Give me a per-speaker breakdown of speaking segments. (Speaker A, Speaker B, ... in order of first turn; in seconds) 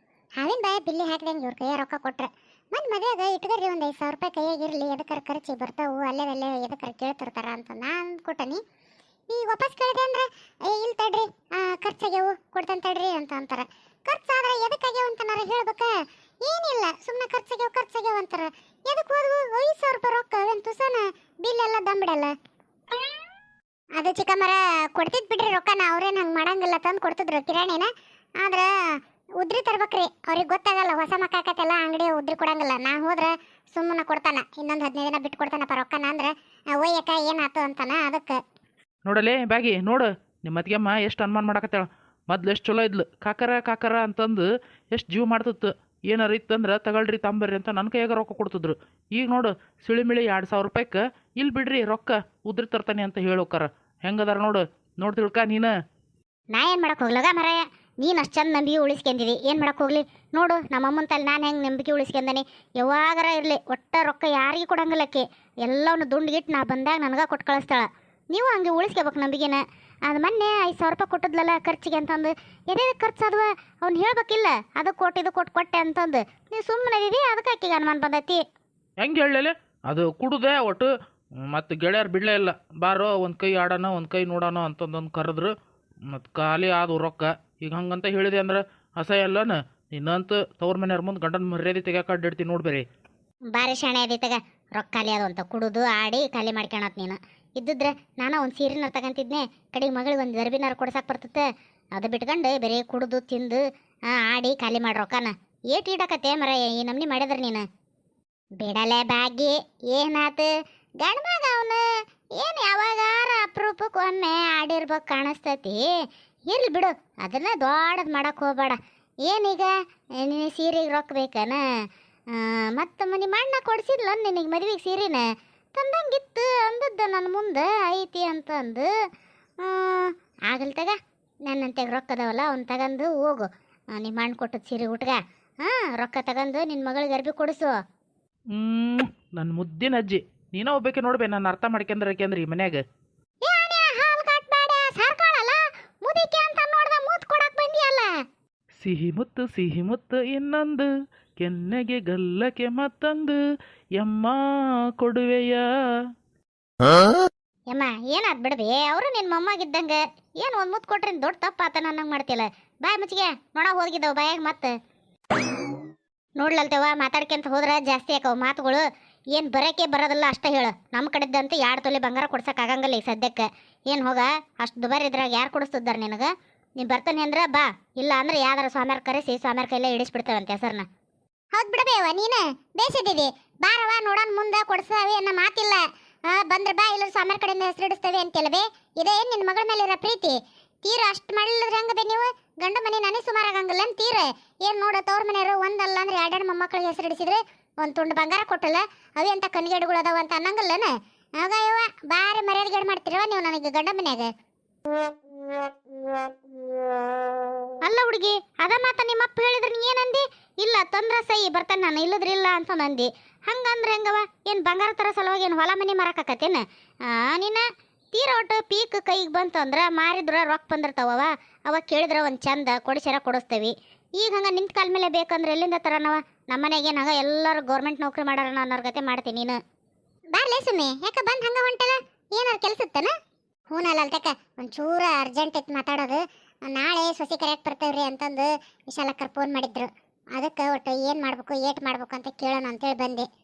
Speaker A: 0.4-8.6, 9.3-22.3, 24.0-27.9, 28.4-28.7, 29.4-38.4, 143.4-148.1, 181.5-204.3, 230.3-233.1, 233.7-243.2
Speaker B: 39.1-55.7, 79.0-80.9, 81.4-85.5, 86.1-92.8, 138.5-142.8, 148.8-153.4, 154.0-154.4, 155.0-155.6
Speaker C: 56.5-78.4, 93.5-101.4, 102.0-103.6, 104.2-107.7, 108.6-111.8, 112.4-115.8, 116.5-121.6, 122.3-128.9, 129.6-130.9, 131.5-137.8, 157.7-164.7, 166.4-180.9, 207.8-229.6